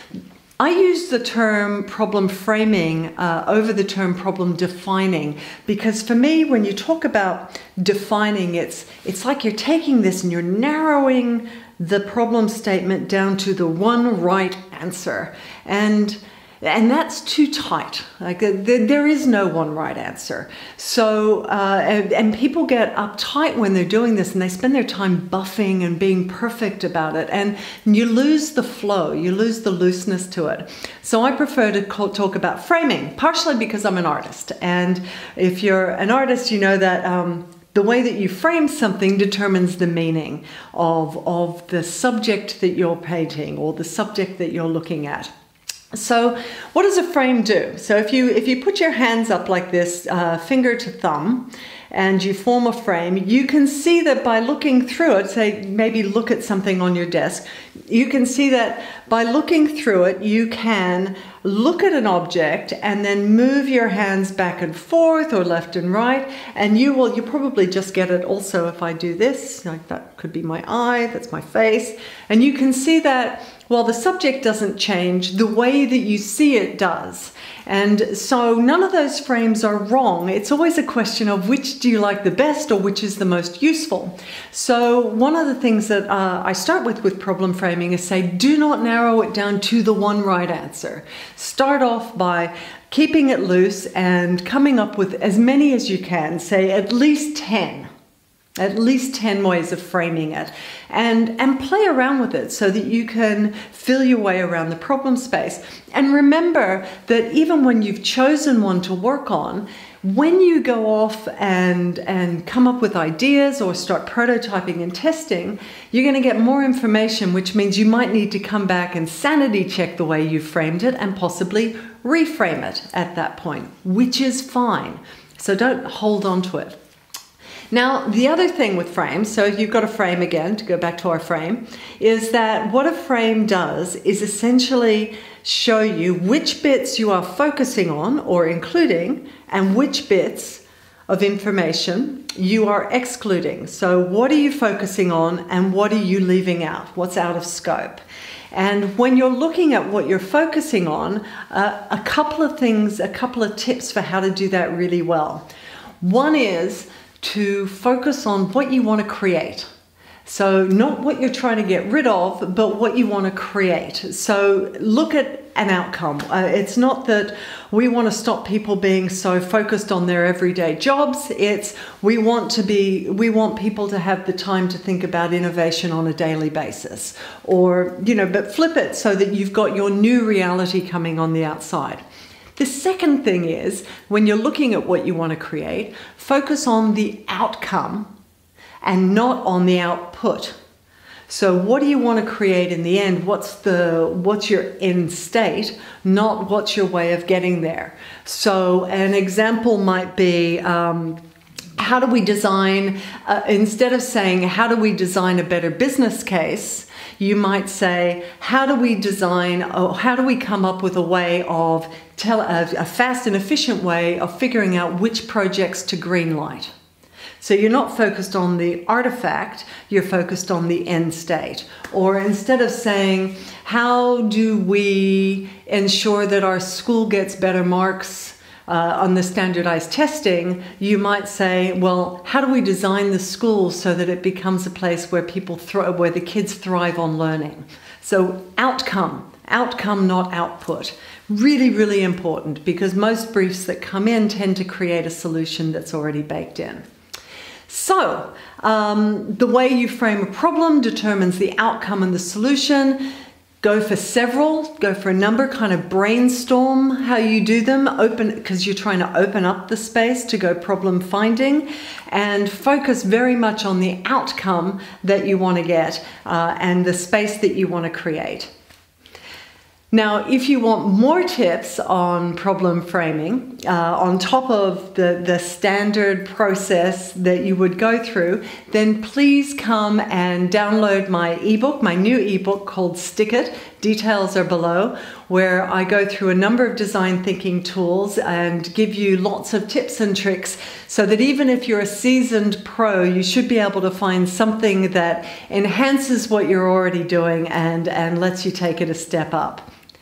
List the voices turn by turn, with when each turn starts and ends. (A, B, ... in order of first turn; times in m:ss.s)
0:00.6-0:45.3 A
0:45.9-1:37.9 A
1:38.6-2:06.8 A
2:07.7-2:28.0 A
2:28.5-2:35.4 A
2:36.0-2:39.7 A
2:40.3-3:02.0 A
3:02.6-3:08.1 A
3:08.8-3:10.6 A
3:11.3-3:21.2 A
3:21.8-3:36.7 A
3:37.4-4:06.8 A
4:07.7-4:13.0 A
4:13.6-4:28.5 A
4:29.9-4:59.7 A